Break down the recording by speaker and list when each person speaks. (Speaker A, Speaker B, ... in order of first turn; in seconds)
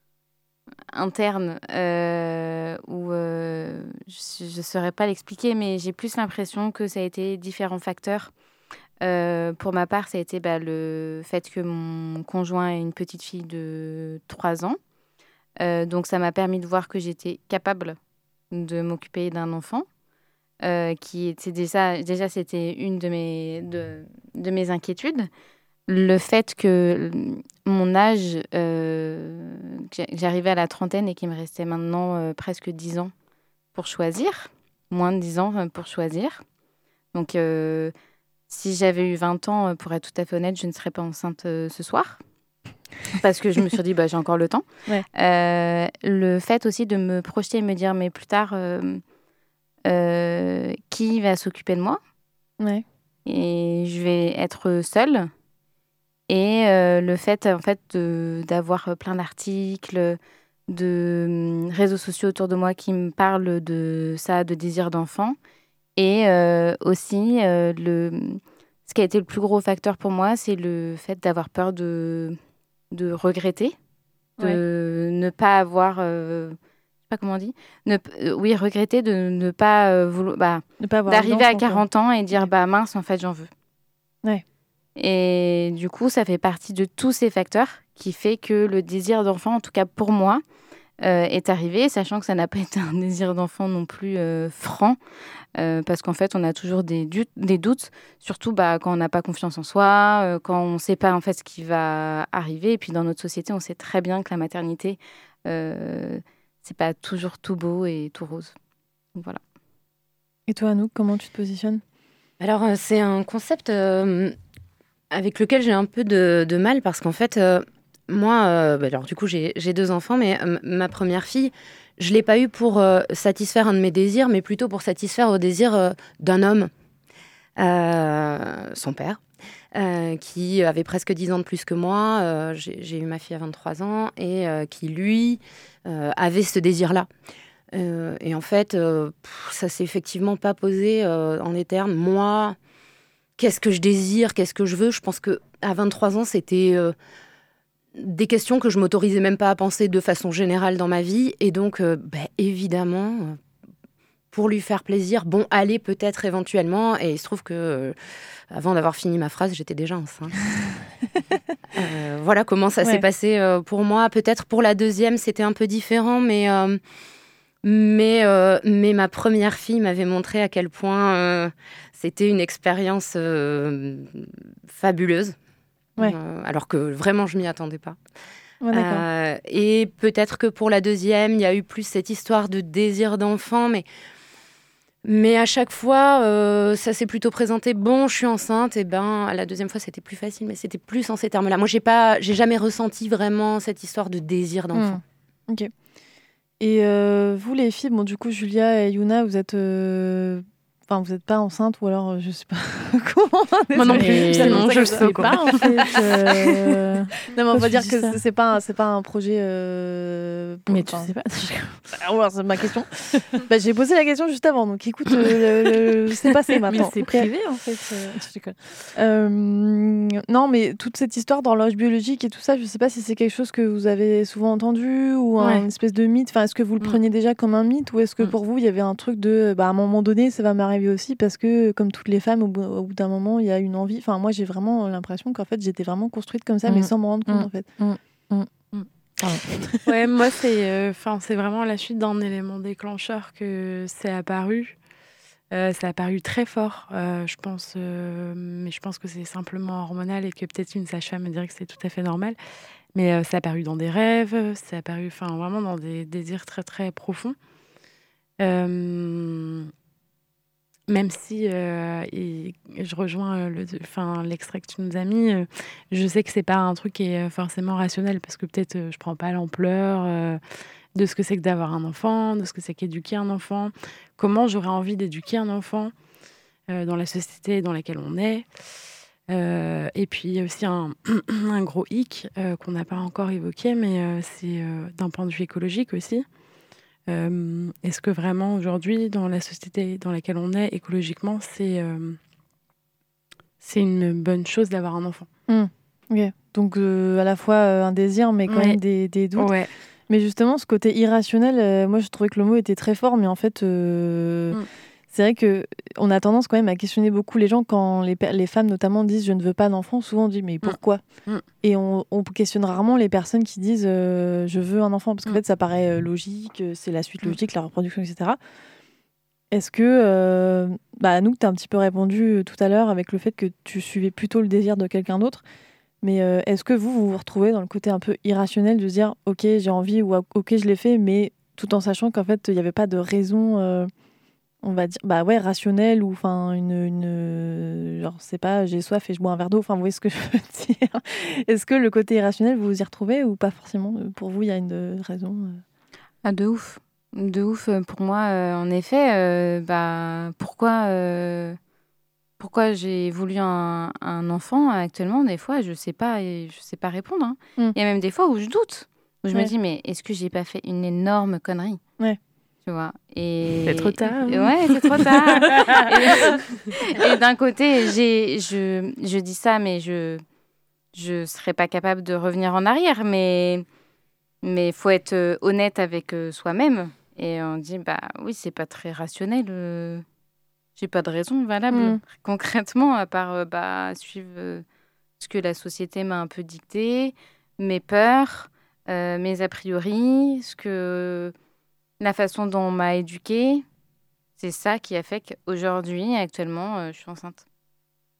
Speaker A: 0.9-8.3, 9.0-14.8, 15.6-18.0, 18.5-19.9, 20.6-25.3, 25.9-33.1, 33.7-36.4, 37.1-37.9, 38.5-42.2, 43.1-49.0, 49.9-52.0, 53.2-55.3, 56.3-65.4, 66.0-72.4, 72.9-73.8, 74.4-76.6, 77.1-83.5, 85.0-90.4, 91.0-95.0, 95.6-108.5, 346.2-351.6, 352.4-361.8, 362.6-370.2, 370.9-373.6, 374.4-380.0, 380.8-384.6, 385.2-391.3, 392.0-393.6, 394.4-397.4
Speaker B: 80.8-81.8, 110.5-111.8, 178.6-179.0, 194.7-195.7, 196.6-211.1, 211.9-217.3, 218.9-237.7, 295.5-299.5, 300.1-304.6, 305.1-311.0, 311.6-318.4, 319.5-325.4, 326.0-333.9, 334.6-345.6, 381.7-382.0
Speaker C: 112.4-114.3, 115.1-126.7, 127.6-129.2, 129.7-137.1, 137.7-142.6, 143.4-146.9, 147.9-153.4, 154.3-157.9, 158.5-160.4, 161.7-166.8, 167.6-175.4, 176.0-178.0, 178.7-183.8, 185.0-195.0
Speaker D: 203.7-206.3, 225.4-225.7, 239.8-244.8, 245.5-252.4, 252.9-257.4, 258.4-259.7, 260.9-270.4, 270.9-275.9, 276.7-278.5, 279.3-286.2, 287.1-292.2, 293.6-295.3, 298.4-298.8, 299.3-299.7, 310.6-311.5, 363.6-366.4
Speaker E: 203.9-208.2, 210.7-211.8, 216.7-218.6, 236.7-239.4